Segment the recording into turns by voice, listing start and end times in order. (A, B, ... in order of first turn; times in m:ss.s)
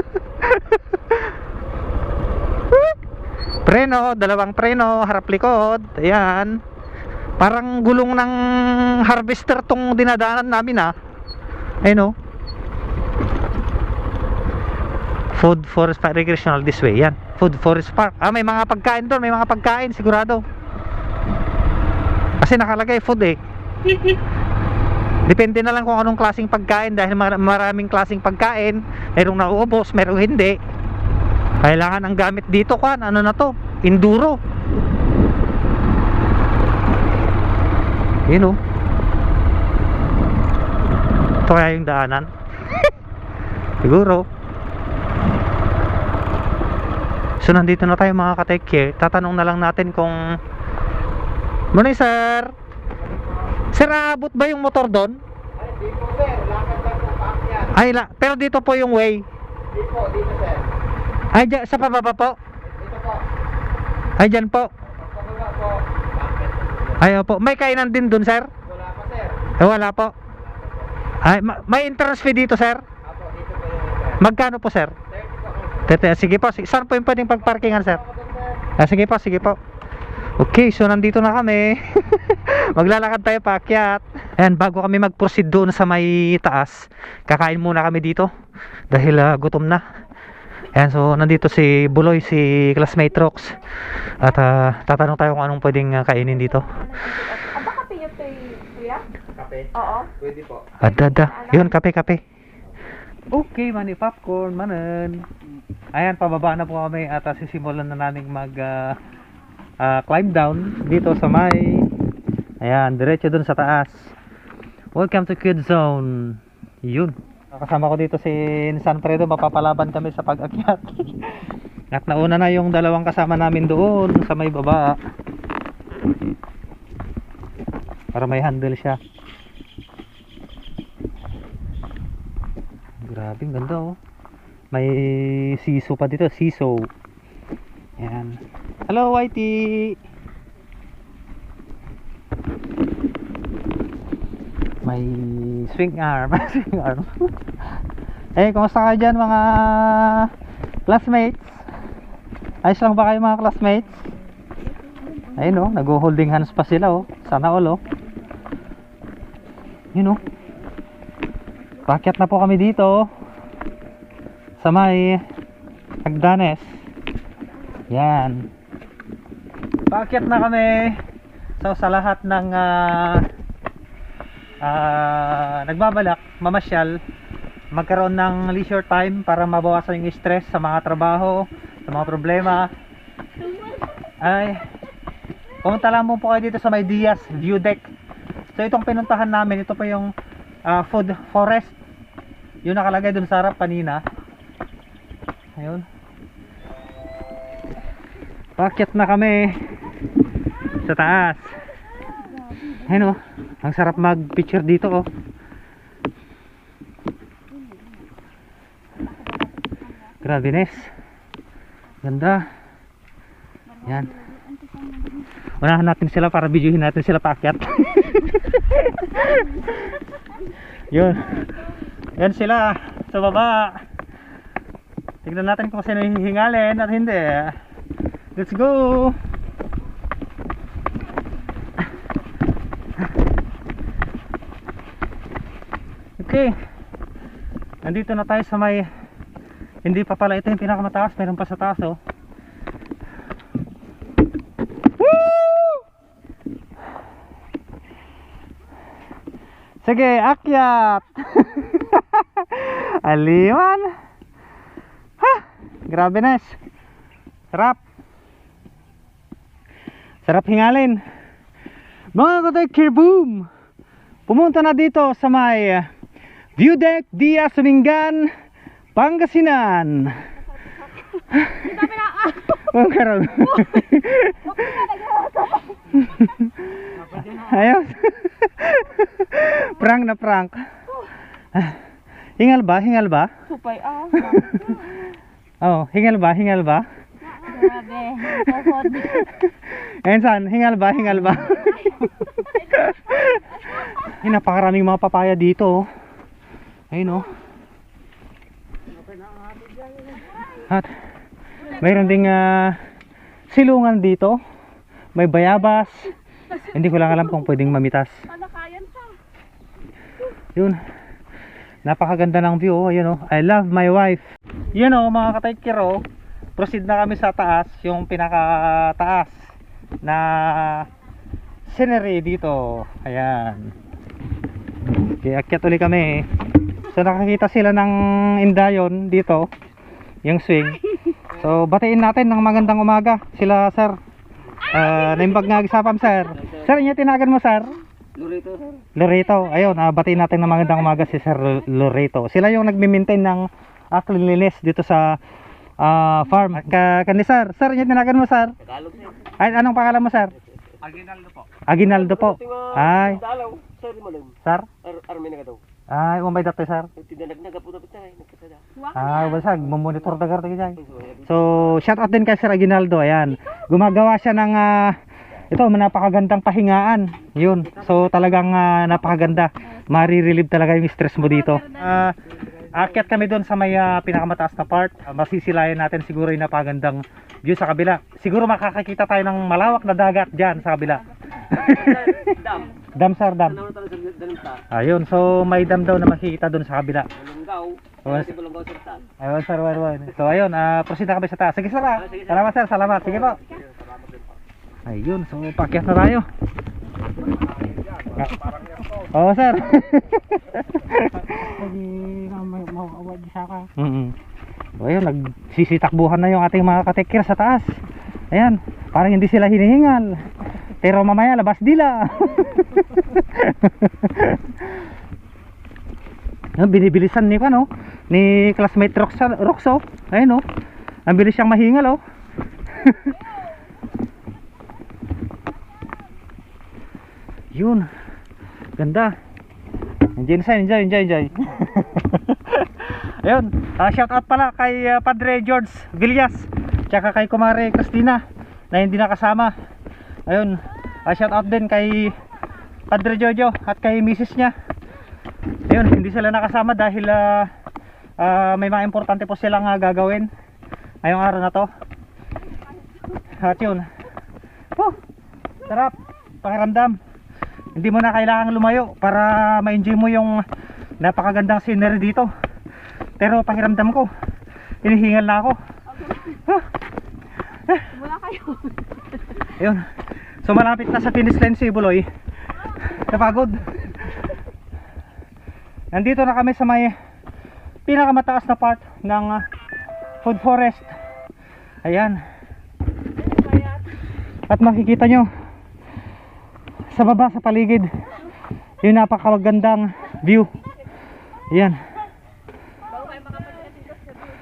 0:00.4-0:01.2 A
0:03.6-0:06.6 A
0:07.4-0:10.9 A
0:11.8-0:12.1 A
0:15.4-0:20.4 A
0:22.4-0:23.4 A
0:25.3-0:30.6 A
0:31.6-0:34.4 A
0:38.3-0:38.6 A
0:41.4-0:42.8 A
0:43.8-0:44.2 A
0:47.4-0:50.2 A
0:51.7-0:52.5 A
0:53.7-0:55.2 A
0:55.8-0:57.5 B
0:57.6-0:59.2 A
0:59.9-1:00.7 B
1:01.3-1:02.4 A
1:02.9-1:03.2 B
1:04.2-1:04.7 A
1:05.2-1:05.7 B
1:06.4-1:06.6 B
1:07.0-1:08.5 A
1:08.8-1:09.3 B
1:09.6-1:10.1 A
1:11.2-1:12.8 A
1:13.3-1:14.0 B
1:14.2-1:15.0 A
1:15.4-1:15.6 B
1:15.8-1:18.1 A
1:18.8-1:19.6 A
1:20.4-1:28.3 A
1:28.9-1:29.8 A
1:30.7-1:33.6 A
1:34.2-1:36.9 A
1:37.0-1:39.0 C
1:39.7-1:40.1 C
1:40.2-1:40.7 B
1:40.8-1:42.2 A
1:43.3-1:45.2 A
1:45.9-1:49.0 A
1:49.8-1:51.9 A
1:52.6-1:54.1 A
1:54.9-2:01.3 A
2:01.9-2:05.0 A
2:08.1-2:09.0 A
2:13.0-2:14.0 A
2:14.7-2:16.9 A
2:18.0-2:20.0 A
2:24.8-2:27.2 A
2:28.4-2:30.3 A
2:30.9-2:31.6 A
2:32.6-2:34.0 A
2:35.4-2:37.8 A
2:41.9-2:43.0 A
2:44.6-2:45.2 A
2:46.0-2:46.6 A
2:47.9-2:48.5 A
2:49.9-2:51.0 A
2:51.6-2:53.3 A
2:54.6-2:57.0 A
2:57.7-3:02.7 A
3:04.2-3:04.6 A
3:05.6-3:07.8 A
3:08.5-3:10.1 A
3:10.6-3:11.8 A
3:12.6-3:14.0 A
3:15.6-3:15.8 A
3:18.6-3:19.6 A
3:20.8-3:21.5 A
3:22.8-3:25.0 A
3:30.2-3:30.9 A
3:32.0-3:32.4 A
3:33.8-3:34.2 A
3:35.6-3:40.0 A
3:40.9-3:41.5 A
3:42.2-3:43.8 A
3:45.2-3:47.6 A
3:48.4-3:49.2 A
3:56.2-3:56.5 A
3:57.8-3:58.9 A
3:59.8-4:02.0 A
4:05.0-4:05.8 A
4:09.8-4:13.9 A
4:15.2-4:16.6 A
4:17.5-4:17.8 A
4:20.2-4:21.0 A
4:22.1-4:23.5 A
4:24.3-4:25.9 A
4:26.6-4:28.3 A
4:28.9-4:30.2 A
4:31.3-4:34.9 A
4:35.8-4:40.6 A
4:41.5-4:41.8 A
4:42.4-4:43.3 A
4:43.5-4:44.1 C
4:44.1-4:44.9 A
4:45.6-4:46.8 A
4:47.7-4:48.8 C
4:48.1-4:55.8 A
4:56.9-4:57.3 A
5:00.6-5:00.9 A
5:01.7-5:02.8 A
5:03.5-5:04.4 A
5:05.2-5:08.1 A
5:08.5-5:09.1 C
5:11.8-5:16.0 A
5:16.6-5:19.3 A
5:20.0-5:20.9 A
5:21.7-5:23.7 A
5:24.9-5:26.2 A
5:26.9-5:29.5 A
5:30.2-5:34.0 A
5:34.7-5:37.8 A
5:38.2-5:38.6 B
5:39.0-5:45.2 A
5:45.8-5:48.5 A
5:48.8-5:49.0 B
5:49.4-5:50.3 A
5:51.7-5:53.2 A
5:52.6-5:54.3 B
5:54.9-5:55.6 B
5:55.9-5:56.9 A
5:57.0-5:58.7 B
5:58.9-6:05.0 A
6:05.5-6:12.2 A
6:12.7-6:23.6 A
6:21.6-6:22.7 B
6:23.7-6:24.6 B
6:24.7-6:27.1 A
6:27.2-6:29.0 B
6:28.0-6:28.4 A
6:29.2-6:33.4 A
6:34.8-6:36.2 A
6:38.1-6:38.4 A
6:39.0-6:44.2 A
6:44.8-6:47.7 A
6:48.3-6:50.2 A
6:50.8-6:54.7 A
6:56.6-7:00.4 A
7:01.1-7:02.0 A
7:02.8-7:03.2 A
7:07.5-7:07.9 A
7:08.8-7:09.1 A
7:10.2-7:19.5 A
7:20.3-7:22.2 A
7:22.9-7:24.5 A
7:25.7-7:27.5 A
7:28.2-7:30.3 A
7:31.0-7:31.7 A
7:33.4-7:33.8 A
7:35.7-7:37.0 A
7:37.7-7:40.4 A
7:41.0-7:42.3 A
7:43.2-7:44.1 A
7:44.8-7:45.6 A
7:46.3-7:46.6 A
7:48.1-7:48.7 C
7:49.4-7:49.8 A
7:50.4-7:52.0 A
7:52.8-7:54.0 A
7:55.9-7:56.9 A
7:57.8-7:59.4 A
8:00.2-8:00.9 A
8:01.8-8:02.2 A
8:04.5-8:05.3 A
8:06.9-8:07.9 A
8:08.8-8:10.5 A
8:11.5-8:11.8 A
8:13.0-8:13.6 B